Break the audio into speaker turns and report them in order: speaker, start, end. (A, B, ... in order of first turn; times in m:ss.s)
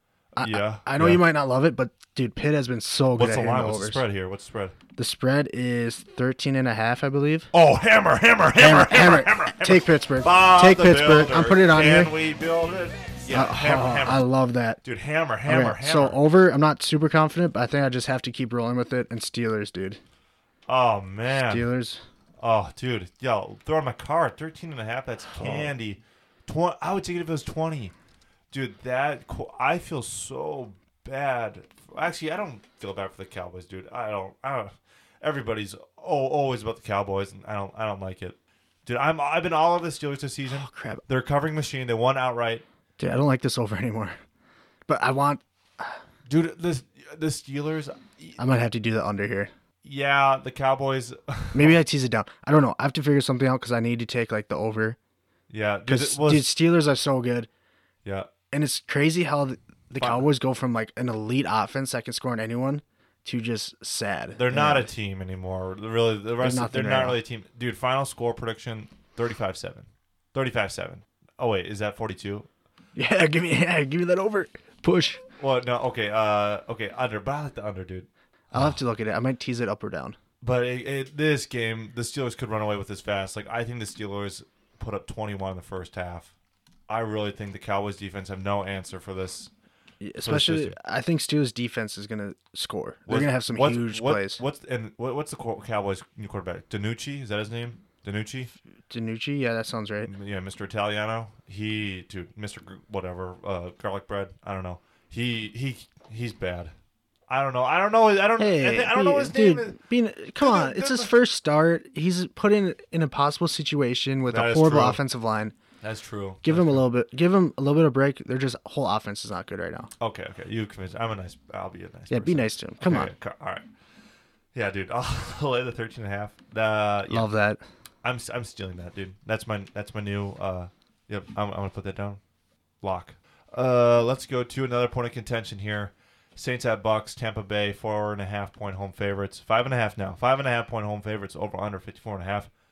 0:00.4-0:04.0 A
0:00.4-0:01.2 B
0:03.2-0:04.8 B
0:05.0-0:07.5 A
0:07.5-0:14.3 B
0:08.6-0:12.1 A
0:13.3-0:14.8 A
0:14.8-0:16.2 B
0:15.4-0:20.0 A
0:20.7-0:21.7 B
0:21.3-0:22.0 A
0:22.4-0:27.9 B
0:25.4-0:25.7 A
0:28.5-0:42.6 B
0:40.5-0:41.0 A
0:43.0-0:44.2 A
0:44.9-0:46.0 A
0:46.3-0:48.4 B
0:48.4-0:49.5 A
0:49.8-0:51.8 B
0:51.5-0:55.0 A
0:55.5-0:56.5 B
0:55.9-0:57.5 A
0:58.0-0:58.3 B
0:58.5-1:04.9 A
1:00.0-1:00.2 B
1:04.4-1:12.5 B
1:06.4-1:07.2 A
1:13.0-1:15.2 A
1:15.4-1:18.8 B
1:18.5-1:20.2 A
1:20.4-1:26.3 B
1:26.9-1:29.5 B
1:30.0-1:34.4 A
1:30.2-1:30.8 B
1:33.1-1:38.5 B
1:38.9-1:40.1 A
1:40.0-1:46.7 B
1:47.3-1:49.8 B
1:48.4-1:55.5 A
1:50.4-1:51.1 B
1:54.3-1:55.0 B
1:55.8-1:56.8 B
1:56.4-1:59.9 A
2:00.0-2:03.7 B
2:02.1-2:03.1 A
2:04.5-2:07.3 B
2:07.1-2:07.6 A
2:08.0-2:12.2 B
2:12.8-2:22.5 B